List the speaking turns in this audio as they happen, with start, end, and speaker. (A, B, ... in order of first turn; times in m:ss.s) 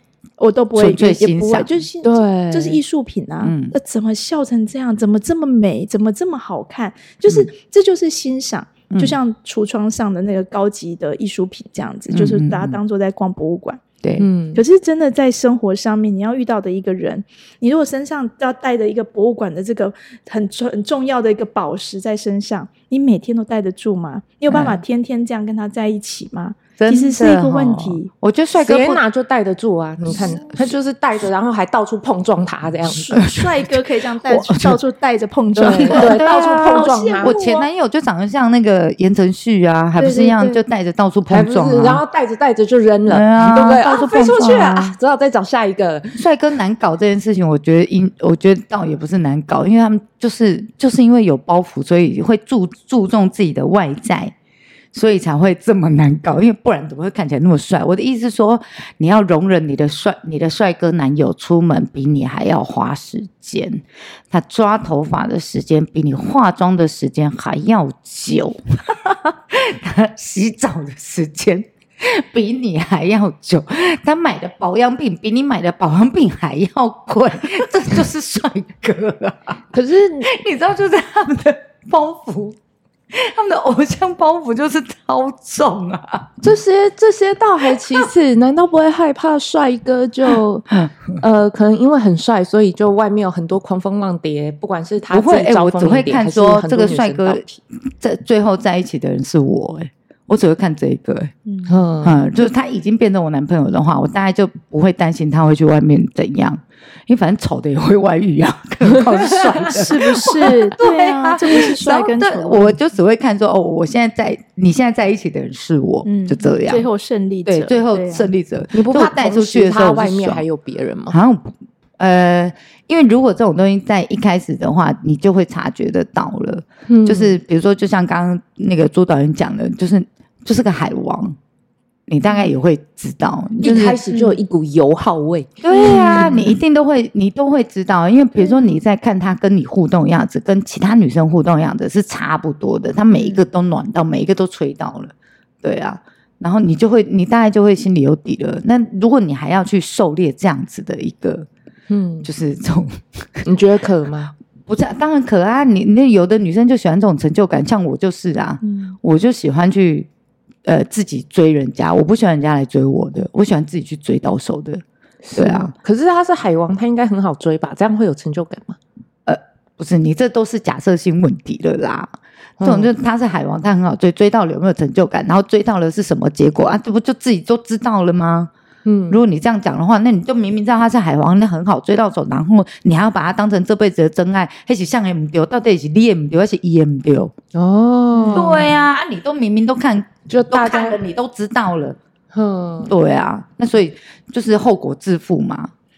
0:00.4-0:13.8 A
0:00.8-0:01.8 B
0:02.0-0:02.8 C
0:03.4-0:03.7 B
0:08.9-0:09.2 B
0:12.1-0:12.8 B
0:14.2-0:14.6 C
0:14.5-0:28.1 A
0:24.5-0:24.8 B
0:26.8-0:29.0 B
0:28.6-0:33.2 C
0:30.1-0:30.7 B
0:32.8-0:37.7 A
0:33.1-0:34.8 B
0:35.6-0:37.4 C
0:35.8-0:42.0 B
0:40.0-0:40.6 A
0:41.3-0:46.2 C
0:43.1-0:45.0 B
0:44.3-0:44.5 A
0:46.1-0:54.3 B
0:54.9-1:19.6 B
1:19.7-1:20.3 C
1:20.2-1:22.6 B
1:23.1-1:26.4 B
1:26.4-1:37.6 C
1:35.1-1:37.4 B
1:38.0-1:41.3 B
1:41.4-1:41.8 A
1:41.7-1:42.2 C
1:42.0-1:56.8 B
1:49.6-1:52.7 A
1:56.0-1:58.3 A
1:57.4-2:00.4 B
1:58.7-2:01.2 C
2:01.1-2:11.4 B
2:06.9-2:07.4 C
2:12.1-2:14.0 B
2:13.6-2:16.6 C
2:13.7-2:14.4 A
2:15.6-2:31.5 B
2:15.7-2:16.4 A
2:18.4-2:18.8 A
2:31.9-2:32.3 C
2:32.2-2:33.5 B
2:33.4-2:34.3 C
2:34.7-2:40.1 B
2:38.6-2:38.9 A
2:40.6-2:44.8 B
2:45.2-2:48.8 C
2:45.3-2:45.7 B
2:49.2-2:52.1 B
2:52.6-2:52.9 C
2:52.6-2:58.5 B
2:58.8-2:59.2 C
2:59.1-3:07.3 B
3:07.5-3:08.7 C
3:08.1-3:08.5 A
3:08.3-3:12.0 B
3:10.3-3:11.0 C
3:12.3-3:12.9 C
3:12.8-3:15.7 B